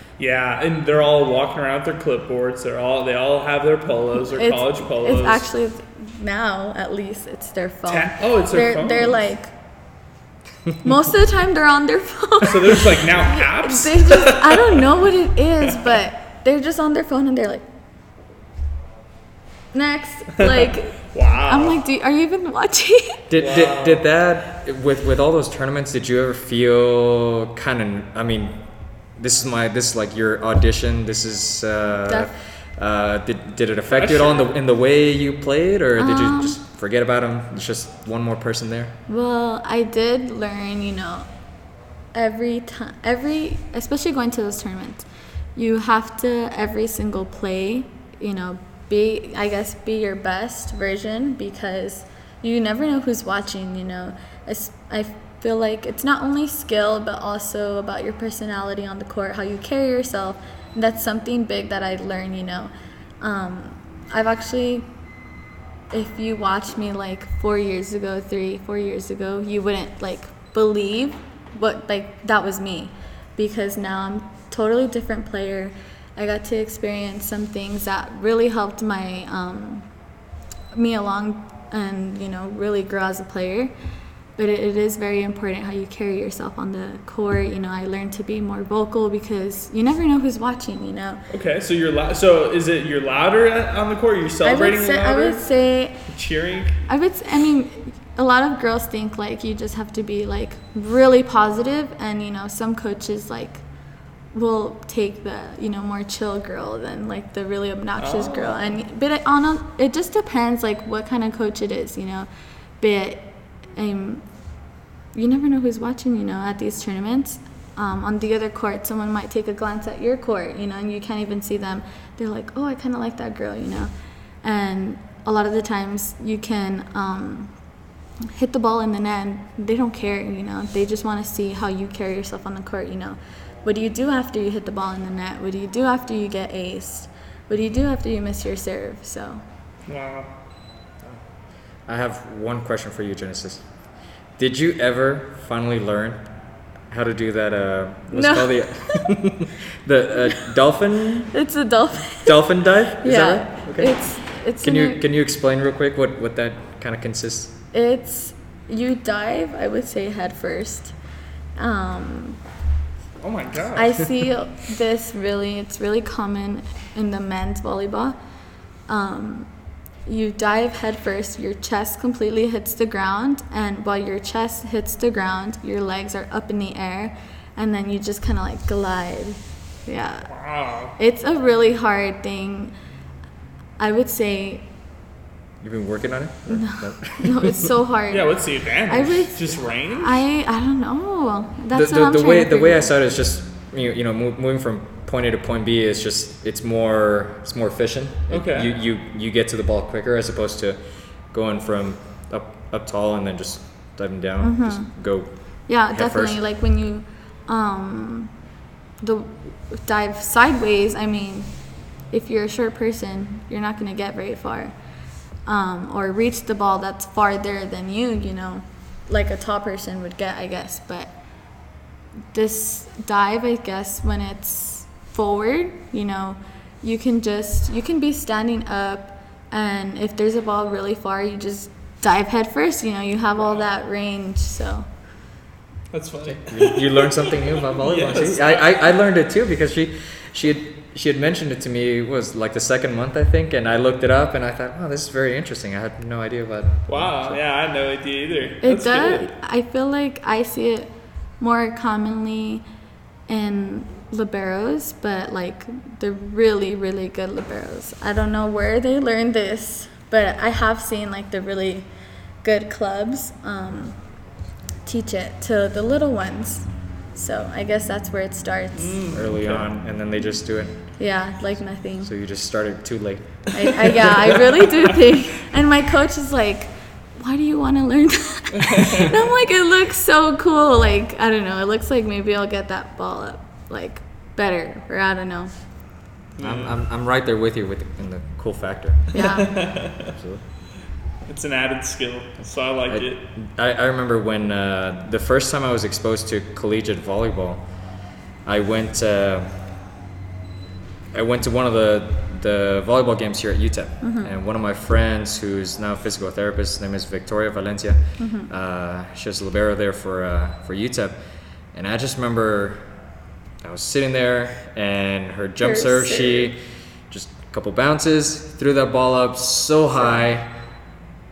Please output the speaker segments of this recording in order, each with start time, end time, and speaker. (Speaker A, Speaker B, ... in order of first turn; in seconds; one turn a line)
Speaker A: 0.2-5.4
Speaker B: 4.2-9.5
Speaker A: 7.9-9.2
Speaker B: 10.8-17.6
Speaker A: 12.4-14.8
Speaker B: 19.7-23.2
Speaker A: 20.4-21.8
Speaker C: 23.3-28.6
Speaker A: 23.3-24.0
Speaker C: 29.1-39.0
Speaker B: 32.0-32.3
Speaker A: 33.9-34.5
Speaker B: 36.0-36.6
Speaker B: 39.1-41.3
Speaker B: 42.1-64.9
Speaker B: 65.9-79.9
Speaker B: 80.7-83.7
Speaker B: 84.4-91.2
Speaker A: 91.3-95.5
Speaker B: 94.4-96.0
Speaker A: 96.1-96.8
Speaker B: 96.9-103.6
Speaker B: 104.3-112.3
Speaker A: 108.0-108.8
Speaker B: 112.8-114.2
Speaker B: 115.1-123.9
Speaker B: 124.4-127.5
Speaker B: 128.3-139.4
Speaker A: 139.9-140.3
Speaker C: 141.9-143.7
Speaker C: 144.4-146.3
Speaker C: 146.9-151.3
Speaker B: 148.1-149.1
Speaker B: 151.3-152.4
Speaker C: 152.1-154.0
Speaker B: 152.9-155.0
Speaker C: 154.6-157.6
Speaker B: 157.7-160.9
Speaker B: 161.6-162.4
Speaker A: 163.2-164.0
Speaker B: 163.8-168.2
Speaker B: 168.9-169.5
Speaker B: 170.1-180.3
Speaker A: 180.3-180.9
Speaker B: 181.0-182.7
Speaker B: 183.8-184.7
Speaker C: 185.6-187.7
Speaker B: 186.5-188.3
Speaker A: 188.1-190.2
Speaker B: 188.9-192.9
Speaker C: 191.7-200.8
Speaker A: 198.3-198.7
Speaker C: 201.3-205.3
Speaker B: 204.4-204.9
Speaker B: 205.7-208.3
Speaker C: 205.9-206.4
Speaker B: 209.0-211.5
Speaker B: 212.1-214.7
Speaker B: 215.4-221.1
Speaker B: 222.3-234.9
Speaker A: 235.9-238.8
Speaker C: 236.3-247.4
Speaker A: 246.9-249.3
Speaker B: 248.6-252.6
Speaker B: 253.3-261.9
Speaker B: 262.4-264.0
Speaker B: 264.8-269.1
Speaker A: 268.8-269.7
Speaker C: 269.1-271.0
Speaker B: 271.0-272.1
Speaker C: 272.0-274.2
Speaker B: 273.5-285.5
Speaker A: 278.6-279.0
Speaker A: 286.4-286.7
Speaker C: 286.4-290.4
Speaker B: 289.1-289.8
Speaker A: 289.1-290.1
Speaker A: 291.2-293.2
Speaker C: 292.9-297.7
Speaker C: 298.4-299.6
Speaker C: 301.1-311.1
Speaker B: 304.0-304.3
Speaker B: 308.2-308.5
Speaker C: 311.7-312.9
Speaker C: 313.6-320.6
Speaker B: 315.6-316.5